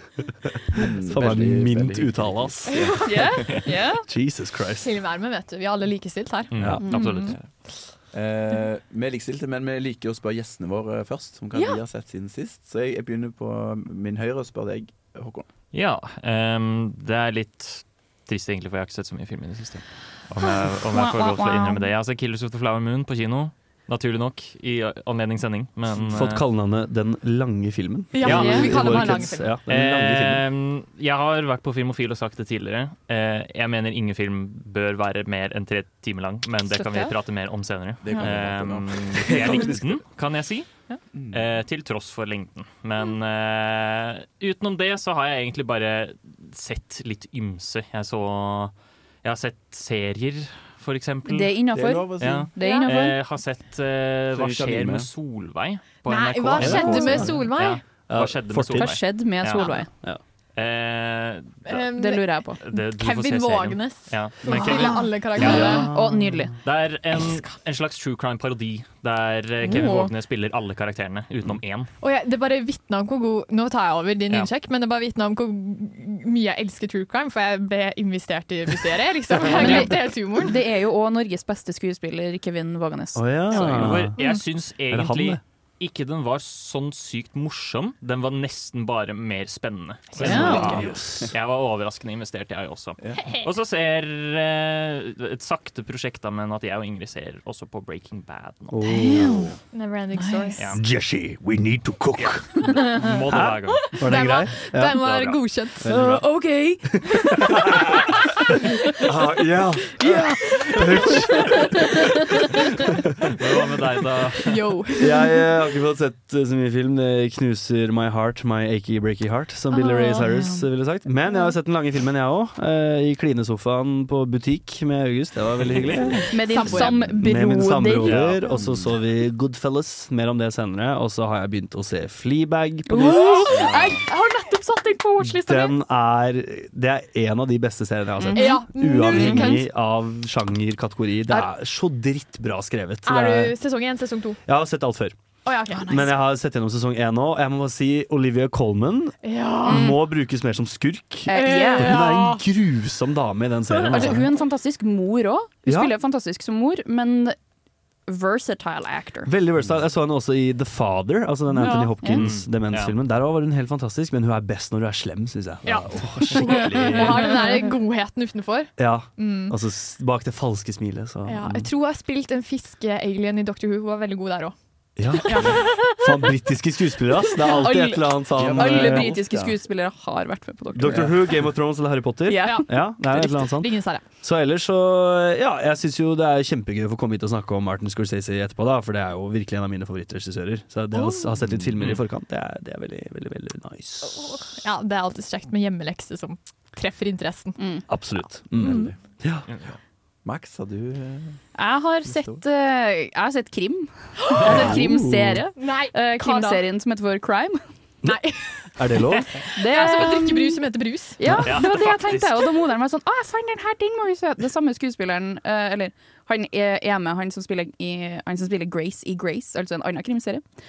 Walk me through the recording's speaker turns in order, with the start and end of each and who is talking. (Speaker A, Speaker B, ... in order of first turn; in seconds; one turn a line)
Speaker A: 0.7-3.6
Speaker B: 1.1-3.0
Speaker C: 2.7-3.4
Speaker D: 3.0-4.1
Speaker B: 3.5-4.9
Speaker C: 4.8-7.4
Speaker E: 6.5-7.5
Speaker B: 6.6-7.3
Speaker A: 8.1-15.5
Speaker C: 11.5-11.8
Speaker E: 15.7-26.4
Speaker D: 20.4-21.9
Speaker B: 25.9-30.4
Speaker C: 28.1-29.5
Speaker E: 28.2-28.9
Speaker D: 28.2-29.0
Speaker E: 29.7-40.7
Speaker D: 36.7-37.1
Speaker A: 38.0-40.0
Speaker A: 41.1-41.5
Speaker E: 41.3-51.6
Speaker D: 51.3-53.2
Speaker A: 51.7-52.5
Speaker E: 52.2-59.9
Speaker C: 52.6-52.9
Speaker A: 54.3-55.1
Speaker C: 56.1-57.8
Speaker B: 56.5-57.5
Speaker B: 58.1-59.2
Speaker D: 58.7-59.9
Speaker E: 60.6-61.8
Speaker C: 61.6-65.9
Speaker D: 62.0-62.6
Speaker E: 62.6-65.7
Speaker D: 64.4-66.5
Speaker B: 65.3-66.5
Speaker E: 66.6-71.9
Speaker D: 69.7-70.1
Speaker C: 72.0-80.6
Speaker D: 79.4-83.9
Speaker E: 79.4-79.9
Speaker B: 83.2-84.2
Speaker E: 83.5-98.8
Speaker C: 84.2-84.4
Speaker B: 84.9-85.4
Speaker B: 90.2-91.3
Speaker D: 90.2-90.9
Speaker B: 98.7-99.6
Speaker D: 98.9-99.6
Speaker C: 99.7-100.6
Speaker D: 100.1-100.6
Speaker B: 100.7-105.2
Speaker E: 102.2-104.3
Speaker C: 103.9-106.1
Speaker E: 105.0-105.4
Speaker B: 105.8-106.3
Speaker D: 105.9-106.8
Speaker B: 106.8-111.6
Speaker C: 110.0-111.6
Speaker E: 113.2-114.6
Speaker C: 114.5-115.3
Speaker B: 115.0-133.8
Speaker C: 119.7-120.7
Speaker C: 126.3-126.9
Speaker D: 126.3-128.4
Speaker E: 128.1-128.4
Speaker D: 132.9-135.6
Speaker C: 133.0-134.7
Speaker A: 133.5-134.0
Speaker B: 135.2-143.6
Speaker C: 135.2-135.7
Speaker D: 138.2-139.6
Speaker C: 138.3-139.7
Speaker C: 143.1-144.4
Speaker B: 144.5-145.2
Speaker C: 145.5-146.1
Speaker D: 145.8-146.1
Speaker B: 145.9-154.3
Speaker C: 149.2-149.9
Speaker D: 149.7-150.0
Speaker D: 151.3-152.2
Speaker C: 151.3-152.4
Speaker C: 153.7-154.2
Speaker D: 153.9-157.4
Speaker B: 155.7-155.9
Speaker D: 158.1-159.3
Speaker B: 159.3-167.4
Speaker C: 161.5-162.0
Speaker D: 162.0-162.3
Speaker E: 162.1-162.9
Speaker C: 165.7-169.6
Speaker B: 168.8-171.7
Speaker C: 171.3-174.6
Speaker B: 175.0-179.2
Speaker C: 175.1-175.8
Speaker D: 175.3-176.0
Speaker D: 177.3-181.2
Speaker A: 178.3-179.6
Speaker B: 180.8-194.4
Speaker A: 180.9-181.2
Speaker D: 182.3-182.7
Speaker C: 182.4-184.0
Speaker C: 194.2-198.0
Speaker D: 197.6-197.9
Speaker B: 197.9-199.5
Speaker A: 198.6-198.9
Speaker A: 200.2-201.4
Speaker D: 201.6-207.6
Speaker A: 202.1-202.4
Speaker C: 204.2-204.8
Speaker B: 204.4-205.4
Speaker C: 205.6-206.6
Speaker C: 208.1-208.7
Speaker B: 208.8-209.3
Speaker D: 209.5-220.4
Speaker C: 209.6-211.2
Speaker B: 211.3-211.6
Speaker E: 211.4-212.6